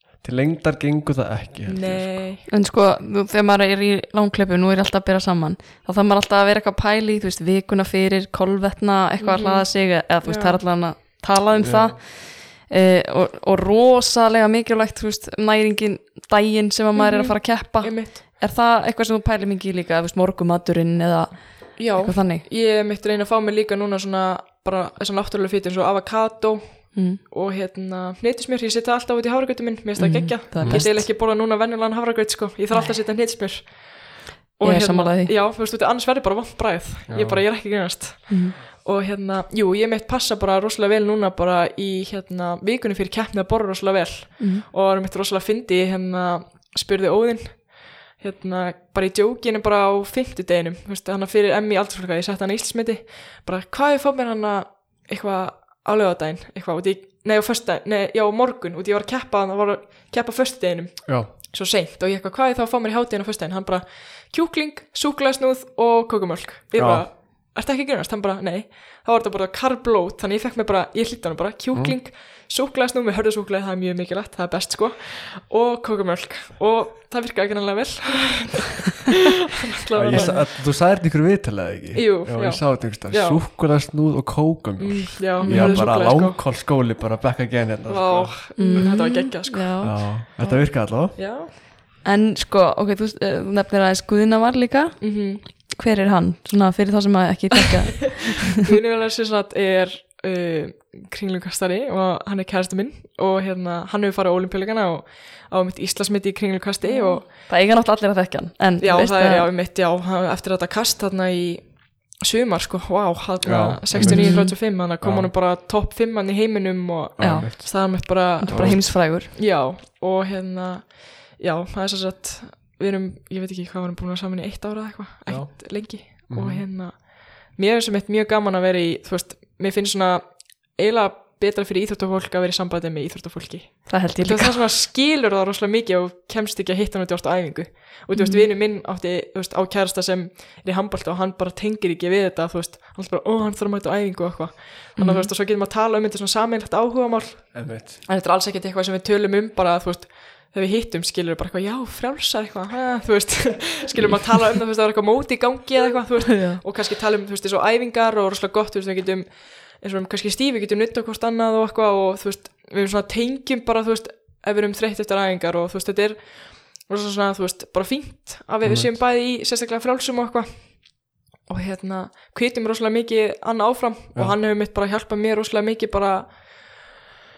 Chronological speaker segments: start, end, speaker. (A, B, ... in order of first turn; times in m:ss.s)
0:00.2-0:02.2 A
0:01.6-0:02.4 B
0:02.5-0:22.4 C
0:09.2-0:10.6 B
0:11.6-0:12.0 A
0:16.9-0:18.2 B
0:21.8-1:19.0 B
0:26.9-0:27.2 C
0:30.0-0:31.1 C
0:30.6-0:30.9 A
0:34.6-0:35.3 C
0:37.1-0:37.4 A
0:38.3-0:38.6 C
0:44.4-0:44.6 C
1:01.0-1:01.3 A
1:06.7-1:07.1 A
1:19.7-1:20.4 B
1:19.9-1:28.9 A
1:20.1-1:20.4 C
1:21.9-1:23.4 B
1:24.8-1:26.4 B
1:25.4-1:25.9 C
1:27.9-1:31.5 B
1:28.6-1:30.1 C
1:29.8-1:31.2 A
1:32.0-1:38.4 C
1:35.0-1:35.5 B
1:38.6-1:47.3 B
1:46.8-1:49.5 C
1:48.8-2:56.9 B
1:53.4-1:55.3 A
1:54.0-1:54.6 C
1:57.2-1:58.9 A
1:57.2-1:59.3 C
2:05.3-2:06.6 A
2:13.9-2:14.6 C
2:18.1-2:18.5 C
2:25.0-2:25.3 C
2:27.5-2:28.0 A
2:36.3-2:36.6 C
2:48.6-2:49.0 A